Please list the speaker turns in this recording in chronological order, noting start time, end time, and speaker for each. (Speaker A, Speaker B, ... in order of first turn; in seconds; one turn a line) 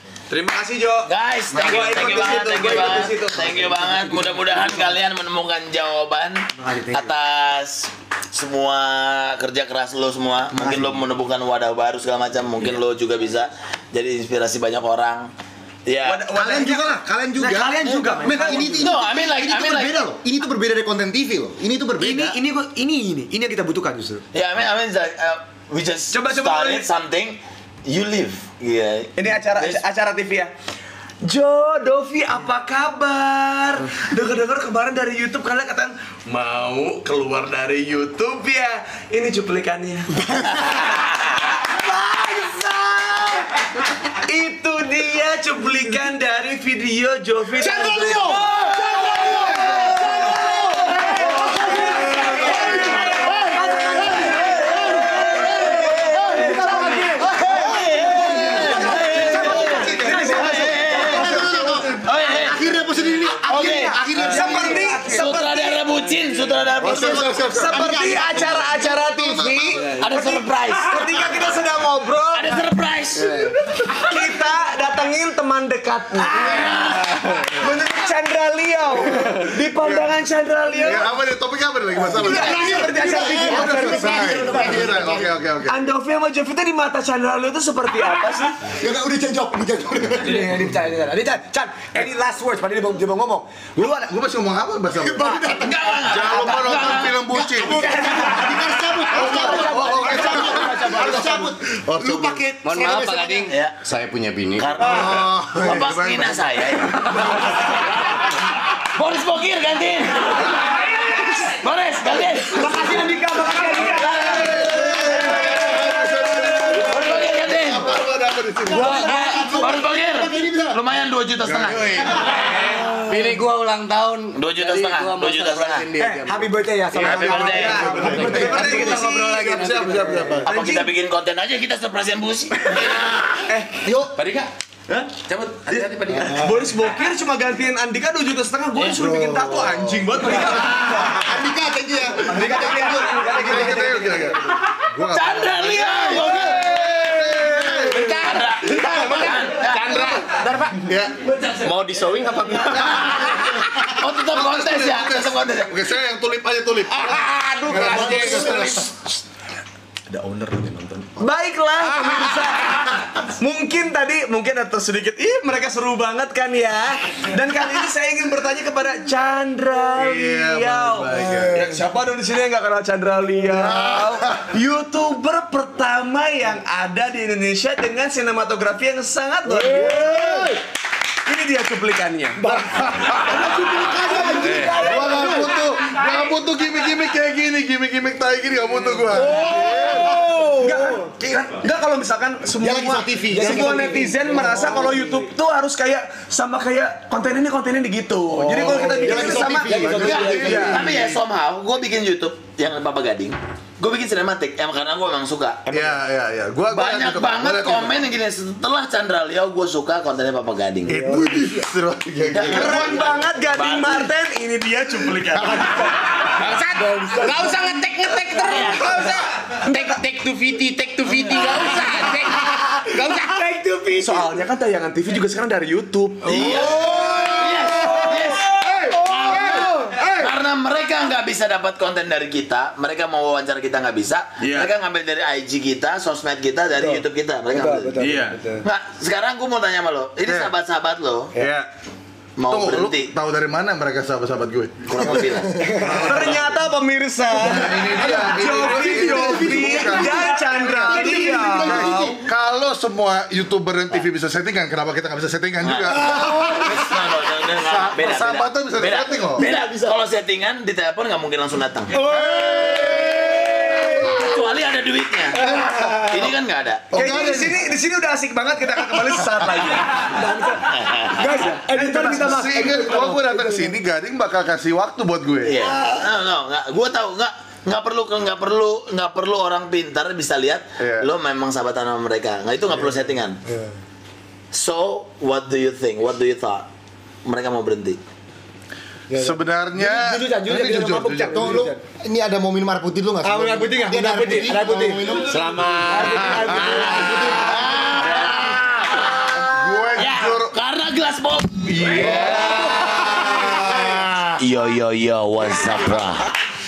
Speaker A: 0.3-3.9
Speaker B: 1.0-15.3
Speaker C: 4.4-4.8
Speaker C: 6.5-7.1
Speaker C: 10.5-11.0
Speaker B: 15.8-16.4
Speaker A: 16.0-17.0
Speaker D: 16.3-22.4
Speaker C: 17.4-18.9
Speaker B: 18.7-20.0
Speaker C: 22.0-24.2
Speaker B: 24.3-29.8
Speaker A: 26.1-26.9
Speaker A: 29.1-30.5
Speaker A: 31.2-40.1
Speaker C: 40.2-40.6
Speaker A: 41.6-43.5
Speaker A: 44.2-50.5
Speaker E: 47.6-48.4
Speaker F: 49.5-49.8
Speaker C: 51.1-62.7
Speaker A: 51.5-53.5
Speaker F: 53.3-54.1
Speaker A: 54.1-57.2
Speaker F: 56.3-57.8
Speaker B: 57.4-61.3
Speaker A: 58.4-60.8
Speaker D: 60.7-65.0
Speaker F: 61.3-62.0
Speaker B: 62.0-62.6
Speaker C: 63.2-65.4
Speaker B: 63.5-63.9
Speaker A: 64.2-65.8
Speaker B: 65.1-67.5
Speaker D: 66.8-69.6
Speaker A: 66.8-72.6
Speaker F: 67.0-67.4
Speaker C: 67.7-68.0
Speaker B: 70.0-71.4
Speaker B: 72.3-73.5
Speaker A: 73.9-81.2
Speaker B: 76.5-77.0
Speaker F: 80.8-85.8
Speaker D: 82.1-85.3
Speaker C: 82.1-85.3
Speaker A: 82.2-83.7
Speaker A: 85.7-88.7
Speaker D: 88.7-90.6
Speaker C: 90.2-94.0
Speaker F: 93.8-95.5
Speaker D: 95.0-103.5
Speaker C: 95.0-95.6
Speaker B: 95.6-97.2
Speaker F: 96.0-97.9
Speaker C: 97.6-101.5
Speaker F: 99.2-102.4
Speaker G: 102.6-104.8
Speaker B: 103.5-103.7
Speaker B: 104.6-108.1
Speaker D: 104.8-105.9
Speaker F: 104.8-106.6
Speaker B: 108.9-110.5
Speaker B: 111.4-113.1
Speaker C: 112.4-115.9
Speaker F: 114.0-119.1
Speaker B: 116.8-117.9
Speaker D: 118.6-120.8
Speaker E: 118.7-119.4
Speaker C: 118.8-119.4
Speaker B: 119.5-122.1
Speaker F: 121.4-122.3
Speaker E: 122.0-123.0
Speaker G: 122.9-130.4
Speaker B: 124.3-125.8
Speaker C: 126.0-129.1
Speaker B: 127.0-128.0
Speaker A: 127.2-130.9
Speaker F: 128.0-128.8
Speaker E: 128.4-130.0
Speaker F: 129.6-130.5
Speaker C: 130.0-130.7
Speaker B: 130.4-132.8
Speaker A: 132.8-134.1
Speaker E: 133.0-133.3
Speaker D: 133.8-134.1
Speaker E: 134.1-136.5
Speaker A: 135.7-141.2
Speaker C: 136.1-136.6
Speaker F: 139.0-140.3
Speaker C: 140.2-141.1
Speaker D: 141.1-144.0
Speaker C: 142.2-144.5
Speaker A: 142.3-143.9
Speaker F: 143.3-148.1
Speaker B: 145.1-146.7
Speaker A: 146.3-148.1
Speaker B: 147.8-150.3
Speaker E: 148.7-153.3
Speaker F: 150.8-151.2
Speaker B: 152.7-155.9
Speaker F: 153.8-158.9
Speaker E: 156.9-158.9
Speaker D: 157.7-158.8
Speaker E: 160.1-161.1
Speaker A: 161.2-180.6
Speaker E: 161.8-162.4
Speaker F: 170.0-171.8
Speaker C: 171.1-171.7
Speaker F: 173.5-174.4
Speaker C: 179.5-180.6
Speaker F: 180.2-180.5
Speaker A: 181.2-182.4
Speaker F: 182.4-190.4
Speaker C: 183.2-185.6
Speaker A: 183.4-186.3
Speaker E: 184.4-184.8
Speaker A: 188.9-201.0
Speaker C: 189.2-191.1
Speaker D: 192.6-194.0
Speaker C: 193.3-195.1
Speaker C: 198.3-201.1
Speaker F: 198.5-198.8
Speaker D: 199.0-200.8
Speaker B: 200.0-205.7
Speaker F: 200.2-200.7
Speaker F: 205.7-208.0
Speaker B: 206.7-210.9
Speaker C: 210.8-211.6
Speaker F: 210.8-213.2
Speaker B: 212.3-214.1
Speaker A: 212.4-216.2
Speaker C: 215.6-216.0
Speaker E: 216.2-219.0
Speaker C: 216.9-217.6
Speaker B: 218.4-219.2
Speaker A: 218.5-219.8
Speaker E: 219.6-223.4
Speaker A: 221.3-221.9
Speaker A: 223.0-230.2
Speaker C: 223.0-224.3
Speaker B: 226.2-228.5
Speaker C: 226.4-227.0
Speaker F: 226.6-227.4
Speaker C: 228.6-230.1
Speaker B: 229.0-237.9
Speaker E: 234.4-234.7
Speaker C: 236.7-238.6
Speaker E: 238.0-238.4
Speaker B: 238.6-241.3
Speaker F: 240.2-240.5
Speaker F: 241.3-241.7
Speaker B: 242.4-243.1
Speaker F: 242.5-246.6
Speaker B: 244.9-245.7
Speaker D: 245.2-245.7
Speaker C: 245.6-246.4
Speaker A: 245.9-252.1
Speaker F: 247.3-259.4
Speaker C: 247.9-251.8
Speaker D: 249.0-252.2
Speaker B: 255.6-261.9
Speaker C: 256.0-256.7
Speaker A: 261.9-263.9
Speaker C: 261.9-263.0
Speaker F: 262.0-264.1
Speaker B: 263.8-265.5
Speaker C: 265.4-266.3
Speaker B: 266.0-266.9
Speaker A: 266.9-270.5
Speaker F: 266.9-267.6
Speaker C: 266.9-267.5
Speaker F: 269.2-269.4
Speaker C: 270.0-273.8
Speaker B: 270.7-271.2
Speaker A: 271.6-272.7
Speaker F: 272.3-275.6
Speaker B: 275.4-283.4
Speaker F: 280.8-281.1
Speaker C: 283.4-283.8
Speaker B: 284.5-286.6
Speaker B: 287.2-288.0
Speaker C: 289.1-291.8
Speaker F: 289.1-291.6
Speaker D: 291.2-295.5
Speaker C: 293.2-295.3
Speaker E: 295.2-296.8
Speaker C: 295.9-297.7
Speaker F: 296.2-298.6
Speaker D: 296.6-297.6
Speaker B: 297.7-302.5
Speaker F: 299.3-300.5
Speaker F: 301.6-304.1
Speaker E: 301.8-303.5
Speaker B: 304.4-306.3
Speaker E: 305.6-305.8